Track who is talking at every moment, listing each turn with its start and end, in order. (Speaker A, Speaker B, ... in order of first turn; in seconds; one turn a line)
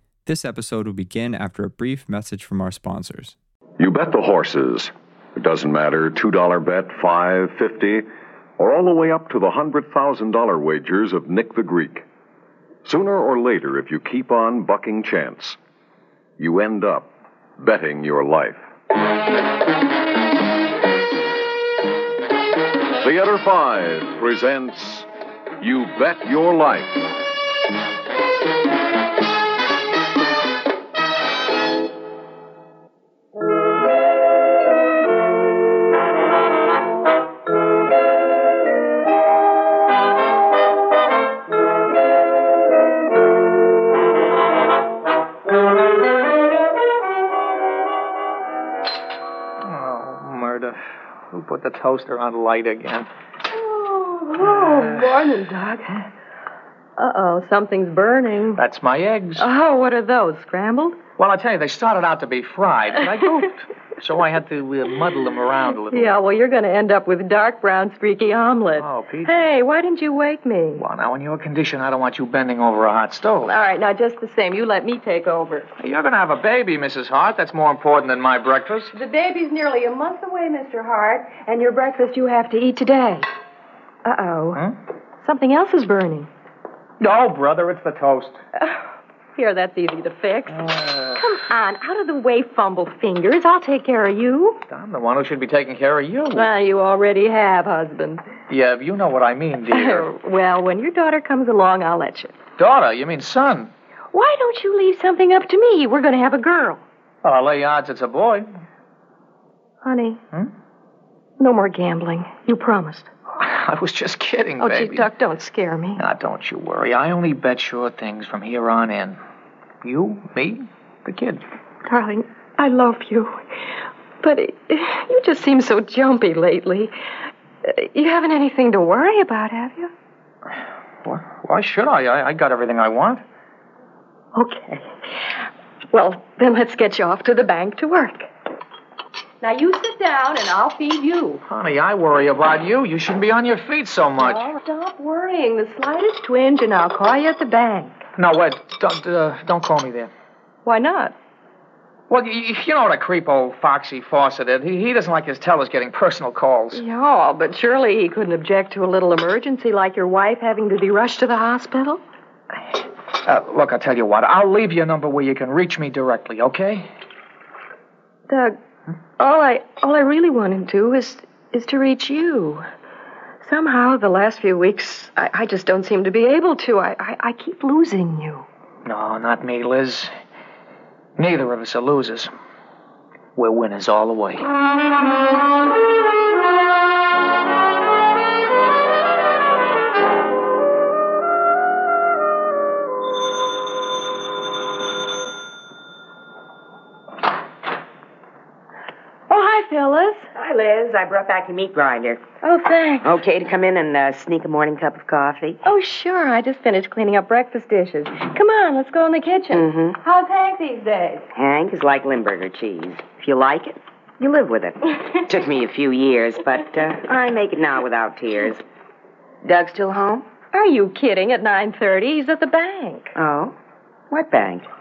Speaker A: 0.2-3.4
Speaker B: 3.8-8.1
Speaker B: 8.6-12.0
Speaker B: 12.8-15.6
Speaker B: 16.4-18.6
Speaker B: 23.0-25.1
Speaker B: 25.6-27.0
Speaker C: 49.6-50.8
Speaker C: 51.3-53.1
Speaker D: 53.5-56.1
Speaker D: 57.0-58.6
Speaker C: 58.6-59.5
Speaker D: 59.4-61.0
Speaker C: 61.2-66.1
Speaker D: 65.8-70.8
Speaker C: 68.8-69.5
Speaker C: 70.8-73.5
Speaker D: 73.4-75.7
Speaker C: 75.8-78.9
Speaker D: 78.9-83.2
Speaker D: 84.0-84.6
Speaker D: 85.2-86.3
Speaker C: 87.0-88.4
Speaker D: 89.3-94.6
Speaker C: 90.7-91.0
Speaker C: 94.7-96.5
Speaker D: 96.3-98.2
Speaker C: 98.5-100.1
Speaker D: 99.7-102.3
Speaker C: 102.6-103.7
Speaker D: 104.1-106.8
Speaker C: 107.2-108.4
Speaker D: 109.8-110.2
Speaker D: 111.4-113.1
Speaker C: 113.4-115.1
Speaker D: 114.6-116.0
Speaker C: 116.0-119.2
Speaker C: 119.8-121.4
Speaker D: 121.8-123.4
Speaker D: 124.2-126.9
Speaker D: 127.6-129.9
Speaker C: 131.0-133.2
Speaker D: 134.3-134.8
Speaker D: 135.9-138.3
Speaker D: 139.4-141.4
Speaker C: 141.5-144.4
Speaker D: 144.2-148.0
Speaker C: 148.2-150.1
Speaker D: 150.6-151.1
Speaker C: 152.1-156.8
Speaker D: 156.7-162.0
Speaker C: 163.2-166.9
Speaker D: 168.3-168.6
Speaker D: 169.2-172.6
Speaker D: 173.4-178.4
Speaker C: 178.8-180.1
Speaker C: 181.2-182.3
Speaker C: 183.3-184.4
Speaker D: 199.3-200.3
Speaker E: 200.3-202.2
Speaker D: 202.4-203.2
Speaker E: 203.0-205.6
Speaker D: 205.6-211.2
Speaker E: 209.5-209.9
Speaker E: 211.3-218.6
Speaker E: 219.4-220.2
Speaker D: 220.5-223.1
Speaker E: 223.1-223.5
Speaker E: 224.1-224.7